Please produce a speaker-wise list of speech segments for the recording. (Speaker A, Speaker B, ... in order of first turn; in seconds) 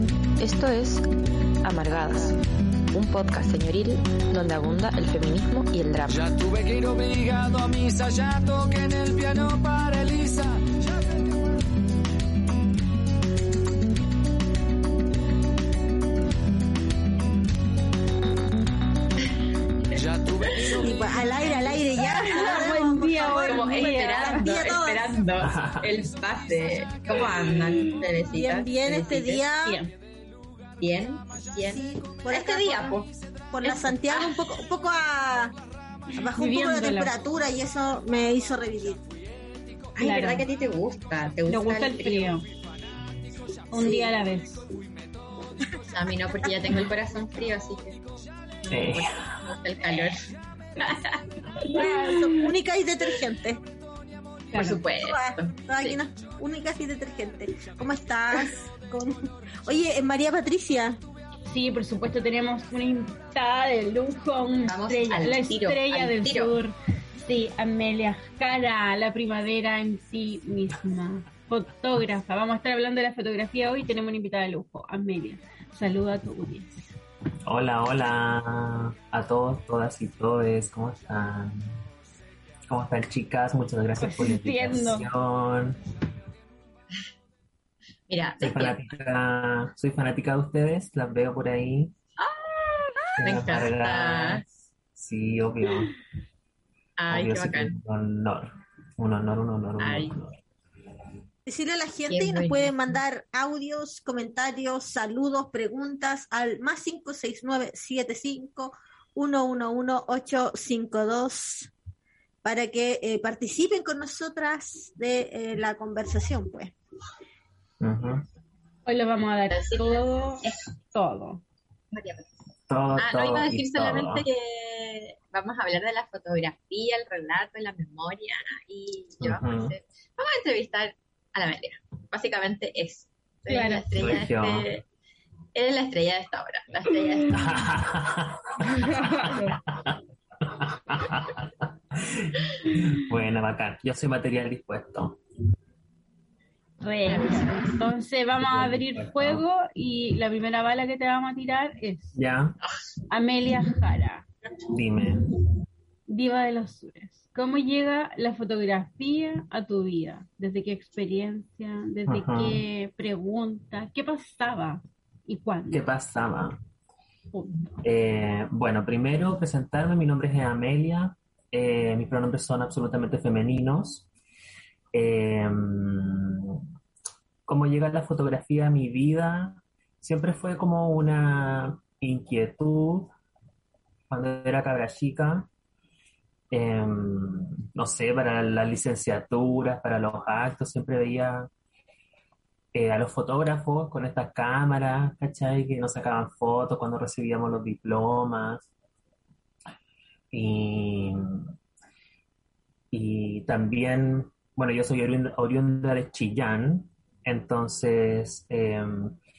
Speaker A: 0.4-1.1, 1.6-2.4, 2.9-6.2
Speaker B: 6.1-11.2, 19.9-21.6
Speaker C: 20.7-25.1, 28.3-29.8, 31.6-35.5, 36.1-39.0, 43.7-44.1, 51.6-53.6, 55.0-61.0, 101.5-111.7, 112.4-116.7
Speaker D: 22.0-24.4, 27.6-28.0, 29.6-29.9, 36.1-37.1, 40.0-40.5, 41.5-42.4, 43.7-44.6, 51.5-52.5, 54.5-54.8, 61.5-76.8, 84.0-85.1, 118.8-121.4, 133.5-133.8, 138.8-139.5, 146.8-152.2, 153.1-154.2, 156.1-165.8, 167.3-167.8
Speaker E: 22.3-29.4, 30.8-33.1, 40.0-42.4, 45.8-48.0, 48.6-51.3, 54.5-56.0, 64.6-66.6, 88.1-88.8, 92.2-94.4, 97.0-97.8, 99.8-100.2, 102.1-103.0, 119.5-120.6, 121.9-122.3, 123.0-134.8, 135.5-137.7, 147.1-147.7
Speaker F: 25.4-26.1, 48.7-49.4, 77.4-81.8, 82.7-85.8, 88.4-91.9, 93.2-95.9, 97.1-100.4, 117.8-118.2, 122.7-124.2, 129.2-129.7, 134.0-134.7, 137.3-145.2, 148.4-149.4, 152.2-152.6, 154.7-155.3, 162.1-162.6, 165.7-166.6, 167.8-174.1, 174.9-176.6, 177.5-183.1, 184.1-185.5, 186.5-191.5, 192.7-198.7, 200.3-201.5, 202.9-209.2